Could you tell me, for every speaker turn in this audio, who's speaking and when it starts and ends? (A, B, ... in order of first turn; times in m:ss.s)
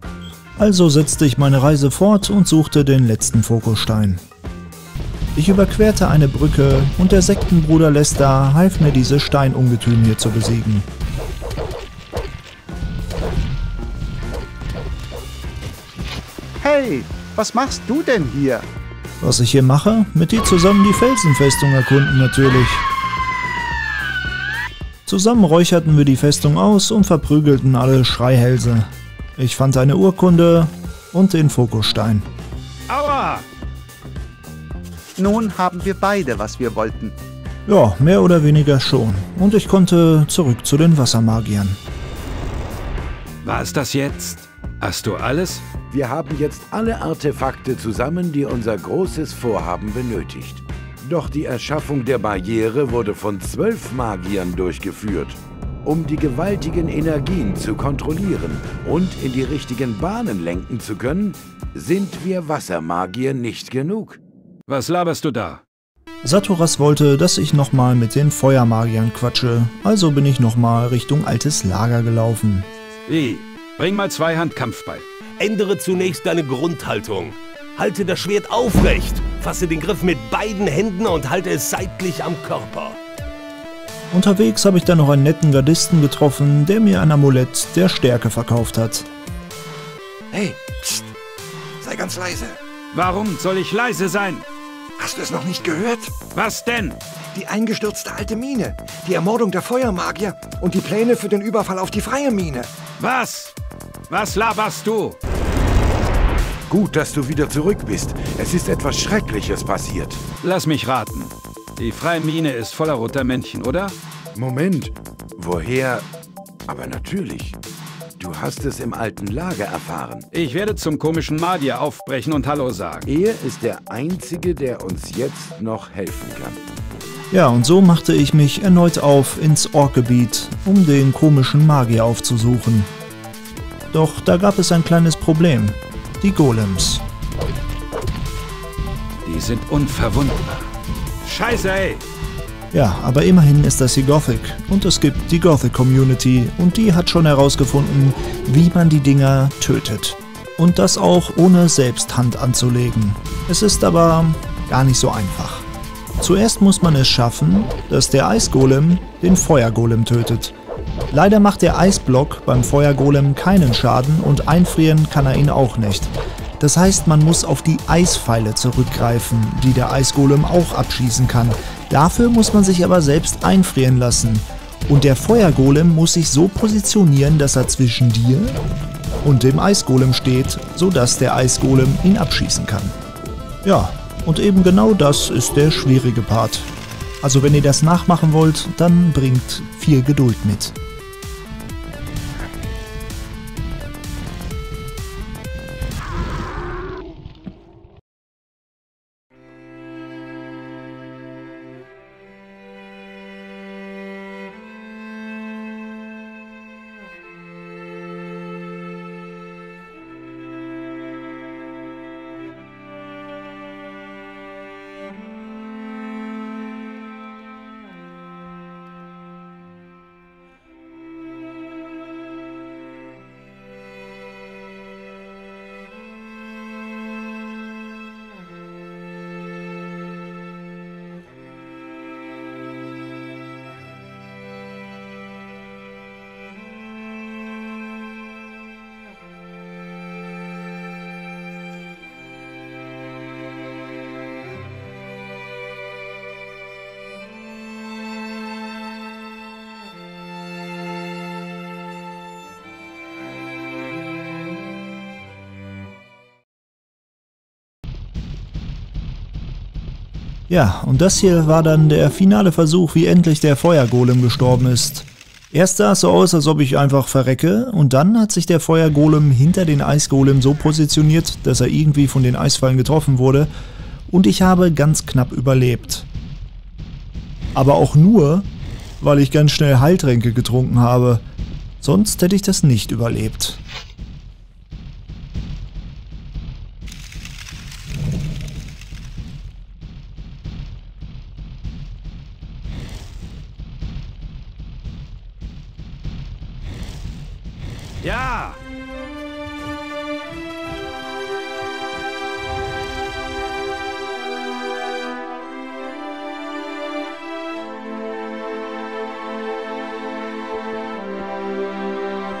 0:00.6-0:04.2 A
0:05.3-0:10.9 A
0:16.6-0:18.6 B
0:19.2-0:22.8 A
0:25.0-0:32.3 A
0:32.9-0:33.4 C
0:35.2-0:37.1 B
0:37.6-0:41.8 A
0:43.4-0:45.6 C
0:45.9-1:04.2 D
1:04.7-1:05.6 C
1:06.2-1:12.7 A
1:13.1-1:15.0 C
1:15.4-1:23.0 E
1:24.1-1:29.1 A
1:30.3-1:31.1 F
1:31.8-1:32.6 F
1:32.9-1:34.4 C
1:35.0-1:36.1 F
1:36.3-1:37.0 C
1:37.3-1:42.7 F
1:43.0-1:43.5 C
1:44.1-1:45.2 C
1:46.7-1:50.2 D
1:50.4-1:54.0 C
1:54.3-1:56.0 D
1:56.7-1:57.6 D
1:58.2-2:00.3 D
2:00.3-2:03.1 C
2:03.0-2:06.6 D
2:07.3-2:12.9 A
2:13.9-2:17.0 A
2:19.2-2:20.6 C
2:21.2-2:22.0 C
2:22.7-2:35.7 A
2:36.2-2:40.5 A
2:41.1-2:58.6 A
2:59.2-3:03.0 A
3:03.6-3:06.7 A
3:07.2-3:10.7 A
4:20.5-4:33.5 A
4:34.1-4:36.1 A
4:37.5-4:38.5 A
4:39.0-4:41.2 A
4:41.8-4:43.6 A
4:58.0-4:58.6 C